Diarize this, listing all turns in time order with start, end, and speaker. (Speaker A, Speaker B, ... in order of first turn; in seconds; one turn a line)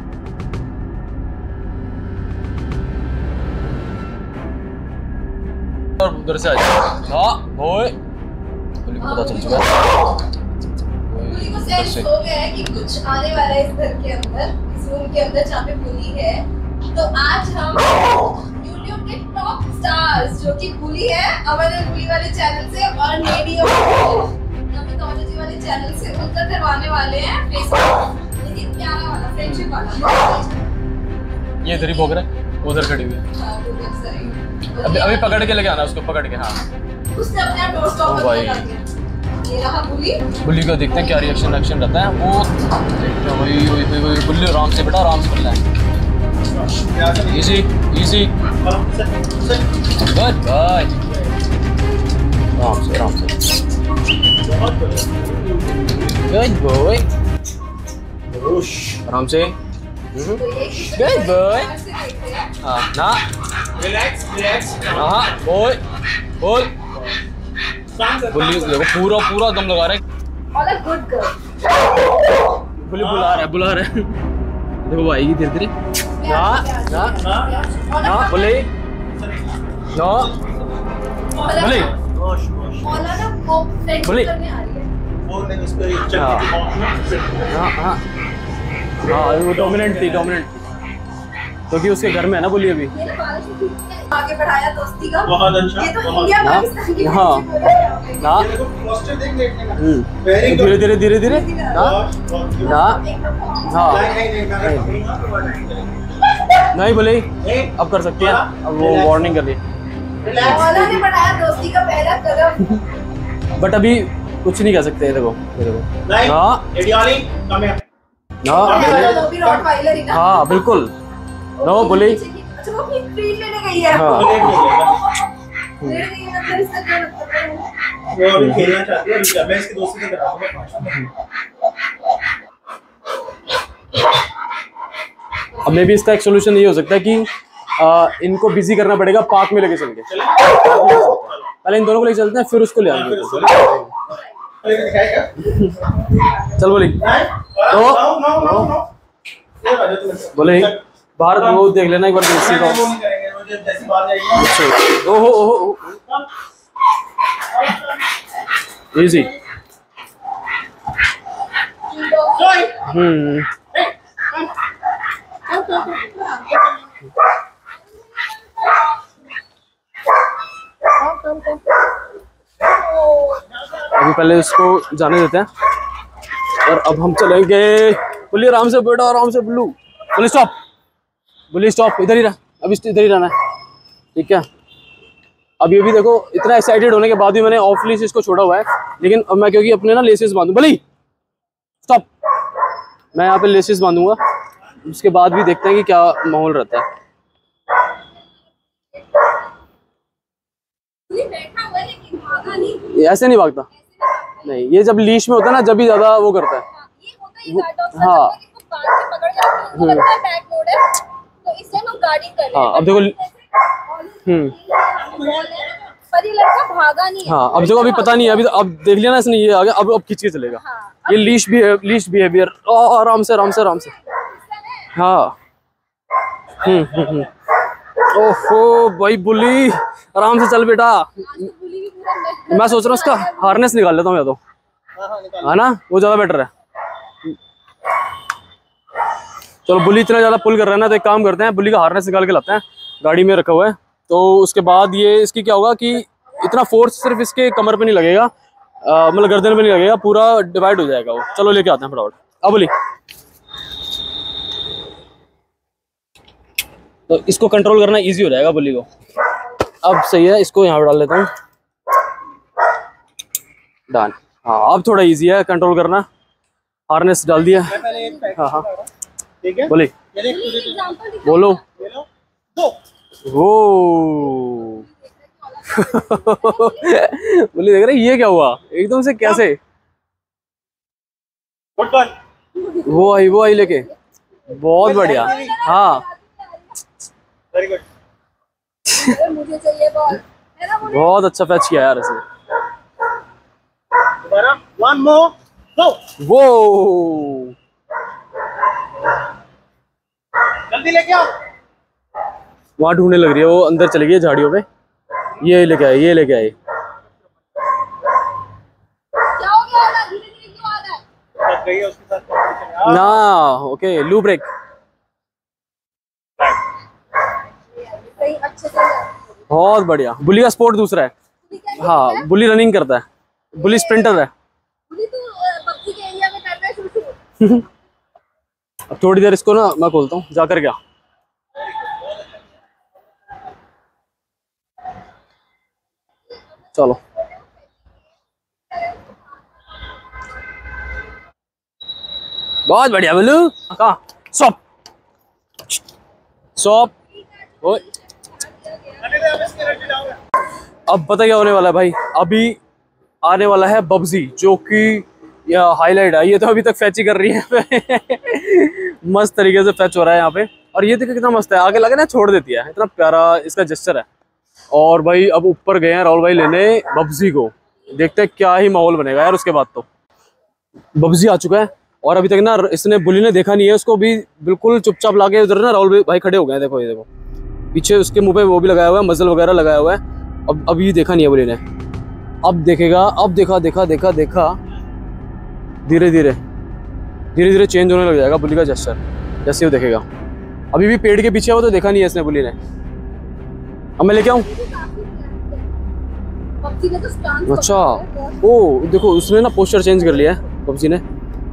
Speaker A: 6.0-8.0
Speaker A: 8.8-9.9
Speaker B: 9.0-10.1
Speaker A: 11.0-12.1
Speaker B: 11.2-30.6
Speaker A: 29.4-29.7
Speaker A: 31.6-33.2
Speaker B: 31.7-32.1
Speaker B: 33.3-35.5
Speaker A: 34.2-36.6
Speaker B: 37.1-38.8
Speaker A: 38.0-38.7
Speaker B: 39.4-40.4
Speaker A: 40.4-45.6
Speaker B: 40.9-41.5
Speaker C: 46.5-47.6
Speaker A: 47.3-48.3
Speaker C: 48.6-49.7
Speaker A: 50.0-51.0
Speaker A: 52.5-53.4
Speaker C: 54.4-56.1
Speaker A: 56.1-57.1
Speaker C: 58.3-59.0
Speaker A: 59.0-59.5
Speaker A: 60.1-61.7
Speaker B: 60.3-62.5
Speaker A: 62.6-63.2
Speaker C: 63.8-65.3
Speaker A: 64.9-65.8
Speaker A: 66.4-66.7
Speaker C: 67.9-68.8
Speaker A: 68.3-70.0
Speaker B: 70.5-71.4
Speaker A: 72.8-74.2
Speaker C: 72.9-73.5
Speaker A: 74.8-75.7
Speaker B: 76.2-78.6
Speaker A: 76.2-77.2
Speaker C: 77.2-77.6
Speaker A: 78.0-78.7
Speaker C: 79.2-79.5
Speaker A: 79.9-80.3
Speaker C: 80.0-80.6
Speaker B: 81.4-81.9
Speaker A: 81.5-81.9
Speaker C: 81.7-83.1
Speaker B: 82.8-84.9
Speaker A: 84.0-84.3
Speaker C: 85.2-87.4
Speaker A: 86.1-86.5
Speaker A: 87.5-88.0
Speaker A: 89.0-90.6
Speaker C: 89.4-90.4
Speaker A: 91.7-92.9
Speaker B: 92.9-98.4
Speaker C: 95.2-96.4
Speaker A: 96.4-97.5
Speaker A: 98.2-98.5
Speaker C: 98.3-100.9
Speaker A: 99.8-102.0
Speaker B: 101.2-102.0
Speaker C: 101.7-102.9
Speaker A: 102.6-103.0
Speaker B: 102.6-104.2
Speaker A: 103.7-105.0
Speaker C: 103.9-106.0
Speaker A: 106.7-109.6
Speaker C: 107.4-109.4
Speaker C: 110.2-111.0
Speaker A: 110.3-110.7
Speaker B: 110.4-112.8
Speaker A: 113.5-116.7
Speaker C: 116.0-117.8
Speaker A: 118.4-119.2
Speaker C: 118.5-119.7
Speaker B: 118.5-120.3
Speaker A: 120.1-120.9
Speaker B: 121.6-127.7
Speaker A: 121.6-122.2
Speaker A: 123.9-124.6
Speaker C: 124.0-125.0
Speaker A: 125.8-126.0
Speaker C: 128.1-131.1
Speaker A: 128.3-128.7
Speaker A: 135.6-140.1
Speaker C: 140.1-141.4
Speaker A: 140.6-143.9
Speaker C: 142.8-143.9
Speaker C: 144.6-145.3
Speaker A: 145.4-145.8
Speaker A: 146.5-147.1
Speaker C: 147.0-148.9
Speaker A: 147.7-148.7
Speaker C: 149.6-150.8
Speaker A: 150.3-152.9
Speaker C: 151.3-151.7
Speaker C: 152.3-154.6
Speaker A: 154.4-156.0
Speaker C: 157.5-157.9
Speaker A: 158.9-159.3
Speaker B: 161.9-162.7
Speaker C: 162.3-162.7
Speaker A: 162.8-163.5
Speaker C: 165.6-165.9
Speaker C: 171.0-171.6
Speaker A: 173.8-175.5
Speaker A: 176.5-180.6
Speaker A: 181.5-183.3
Speaker A: 184.1-184.4
Speaker A: 185.6-190.8
Speaker A: 193.1-194.2
Speaker A: 194.8-196.8
Speaker B: 201.1-203.0
Speaker A: 202.9-203.7
Speaker B: 203.8-204.6
Speaker A: 204.4-206.6
Speaker B: 206.7-218.6
Speaker A: 207.5-208.3
Speaker A: 209.7-210.1
Speaker A: 212.5-213.2
Speaker A: 214.2-214.6
Speaker C: 215.1-215.4
Speaker A: 217.2-223.9
Speaker B: 220.6-221.3
Speaker B: 223.7-224.9
Speaker A: 224.9-225.3
Speaker A: 226.6-227.3
Speaker A: 228.0-231.3
Speaker B: 231.2-233.7
Speaker A: 232.5-234.4
Speaker C: 235.0-235.6
Speaker A: 235.4-236.5
Speaker A: 239.7-248.3
Speaker A: 248.8-252.7
Speaker A: 257.1-258.9
Speaker A: 259.8-261.3
Speaker A: 263.9-266.1
Speaker A: 266.9-268.7
Speaker C: 267.5-268.9
Speaker B: 267.8-268.2
Speaker C: 269.4-270.9
Speaker A: 269.7-269.9
Speaker B: 270.2-271.6
Speaker A: 271.2-271.6
Speaker C: 271.8-272.8
Speaker A: 273.2-274.8
Speaker B: 275.4-276.9
Speaker A: 275.7-279.6
Speaker C: 281.8-282.1
Speaker B: 282.6-283.9
Speaker A: 282.8-283.9
Speaker A: 284.5-286.0
Speaker C: 284.8-285.6
Speaker B: 284.8-286.7
Speaker C: 287.5-287.8
Speaker B: 288.9-291.2
Speaker A: 290.8-292.2
Speaker C: 294.2-296.0
Speaker A: 296.2-297.5
Speaker C: 300.7-301.3
Speaker A: 302.8-304.6
Speaker A: 305.4-306.5
Speaker B: 309.4-311.0
Speaker C: 311.4-313.2
Speaker A: 312.8-314.5
Speaker B: 317.8-319.1
Speaker A: 319.5-321.1
Speaker B: 321.5-322.3
Speaker A: 321.8-324.3
Speaker B: 323.6-324.2
Speaker B: 324.9-327.2
Speaker A: 327.4-327.6
Speaker A: 328.9-330.8
Speaker A: 336.7-337.0
Speaker A: 342.6-344.6
Speaker A: 346.6-346.9
Speaker B: 347.6-349.2
Speaker C: 349.0-350.1
Speaker A: 350.9-352.6
Speaker A: 353.2-364.1
Speaker A: 364.7-369.9
Speaker A: 370.9-377.1
Speaker A: 377.7-381.6
Speaker A: 382.4-384.6
Speaker A: 385.9-386.4
Speaker A: 387.3-390.0
Speaker A: 390.7-392.6
Speaker A: 394.0-394.5
Speaker B: 394.3-395.7
Speaker B: 396.6-398.4
Speaker A: 397.5-401.0